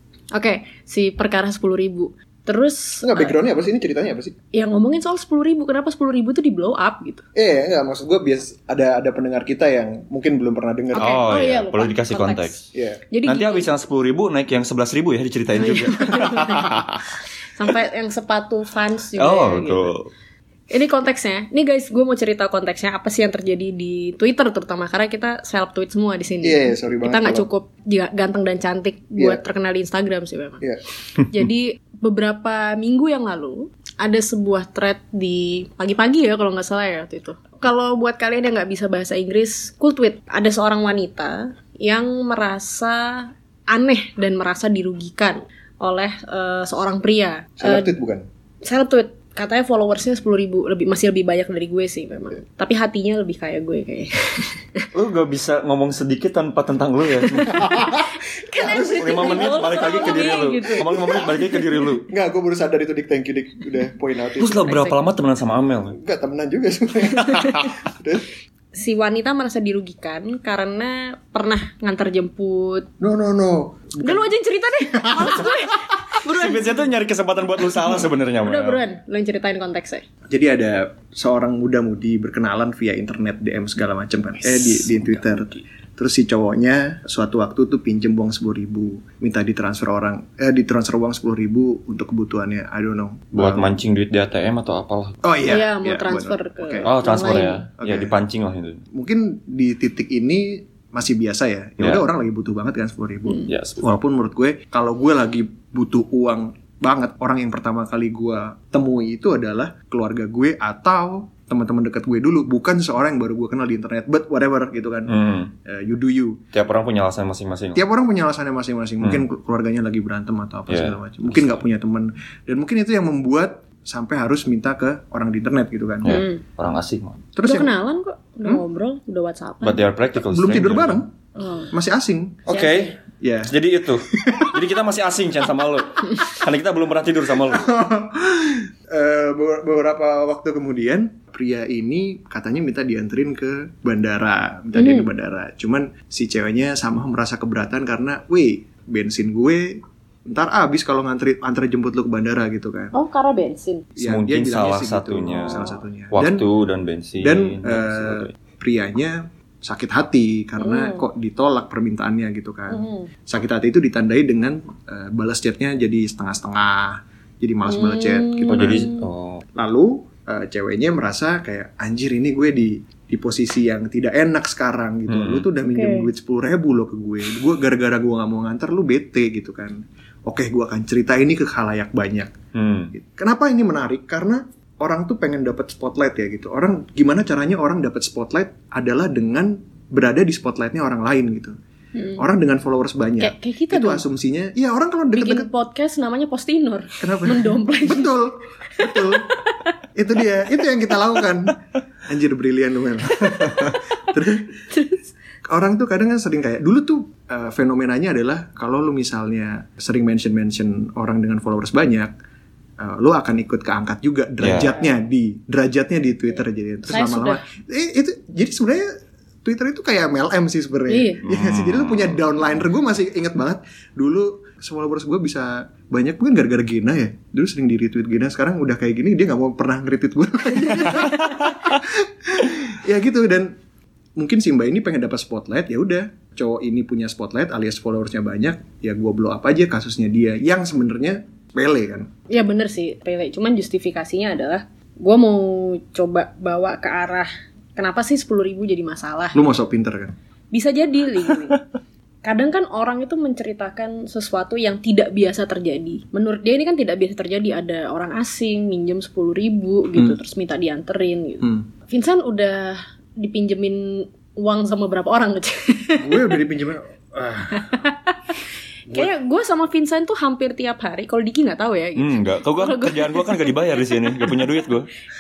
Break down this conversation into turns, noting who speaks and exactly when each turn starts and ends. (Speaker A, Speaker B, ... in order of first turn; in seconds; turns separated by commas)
Speaker A: 0.3-3.4, Speaker B: 3.0-4.3, Speaker A: 4.5-7.2, Speaker B: 7.3-11.2, Speaker A: 10.9-12.6, Speaker C: 11.0-12.6, Speaker B: 12.7-13.0, Speaker A: 13.1-13.7, Speaker C: 13.3-17.1, Speaker A: 15.6-16.9, Speaker A: 17.5-19.9, Speaker C: 19.2-20.1, Speaker A: 20.7-30.6, Speaker B: 26.4-27.5, Speaker B: 29.2-29.4, Speaker A: 31.2-47.9, Speaker B: 47.6-48.2, Speaker A: 48.6-54.9, Speaker C: 54.9-57.7, Speaker A: 57.4-61.5, Speaker B: 57.5-61.5, Speaker C: 58.9-62.1, Speaker B: 62.1-64.9, Speaker C: 64.4-66.0, Speaker A: 64.6-65.0, Speaker B: 66.0-68.3, Speaker A: 67.1-67.7, Speaker A: 68.7-72.9, Speaker B: 73.0-74.3, Speaker A: 74.0-76.8, Speaker B: 74.9-75.6, Speaker C: 76.2-78.8, Speaker A: 78.4-80.0, Speaker B: 80.3-93.7, Speaker C: 84.5-85.4, Speaker C: 93.3-95.2, Speaker B: 95.2-98.2, Speaker A: 95.5-97.7, Speaker C: 96.8-98.8, Speaker B: 98.9-116.4, Speaker C: 101.8-102.1, Speaker C: 103.5-103.9, Speaker C: 115.1-115.5, Speaker C: 116.5-117.8, Speaker B: 117.8-126.2, Speaker C: 120.7-121.6, Speaker C: 126.0-127.3, Speaker A: 126.0-126.4, Speaker B: 127.3-127.7, Speaker A: 127.4-129.8, Speaker C: 129.6-131.0, Speaker B: 130.2-131.1, Speaker A: 131.4-131.7, Speaker B: 131.7-132.6, Speaker C: 132.5-132.9, Speaker A: 132.5-132.9, Speaker B: 133.2-133.6, Speaker C: 133.5-137.7, Speaker B: 134.1-134.6, Speaker B: 137.5-152.9, Speaker A: 144.8-145.1, Speaker A: 152.9-153.9, Speaker B: 154.0-156.4, Speaker C: 154.0-158.3, Speaker B: 157.2-168.9, Speaker A: 160.6-161.1, Speaker A: 162.7-163.1, Speaker A: 167.7-169.1, Speaker C: 168.5-169.4, Speaker B: 169.6-182.3, Speaker C: 175.1-175.5, Speaker A: 175.7-176.1, Speaker C: 182.6-182.9, Speaker B: 182.9-191.6, Speaker A: 191.9-192.2, Speaker B: 192.2-195.5, Speaker A: 193.2-194.0, Speaker A: 195.1-198.2, Speaker B: 197.0-199.3, Speaker A: 198.8-199.7, Speaker B: 199.9-204.6, Speaker A: 204.7-205.0, Speaker B: 205.5-212.1, Speaker B: 212.8-218.9, Speaker C: 214.4-214.8, Speaker A: 216.9-217.4, Speaker B: 219.4-233.5, Speaker A: 220.9-221.2, Speaker C: 221.2-222.2, Speaker B: 234.2-242.1, Speaker A: 242.3-249.4, Speaker B: 249.3-250.2, Speaker A: 250.5-251.6, Speaker A: 252.2-266.4, Speaker B: 266.0-267.7, Speaker A: 267.6-268.3, Speaker A: 268.9-274.5, Speaker C: 272.0-274.9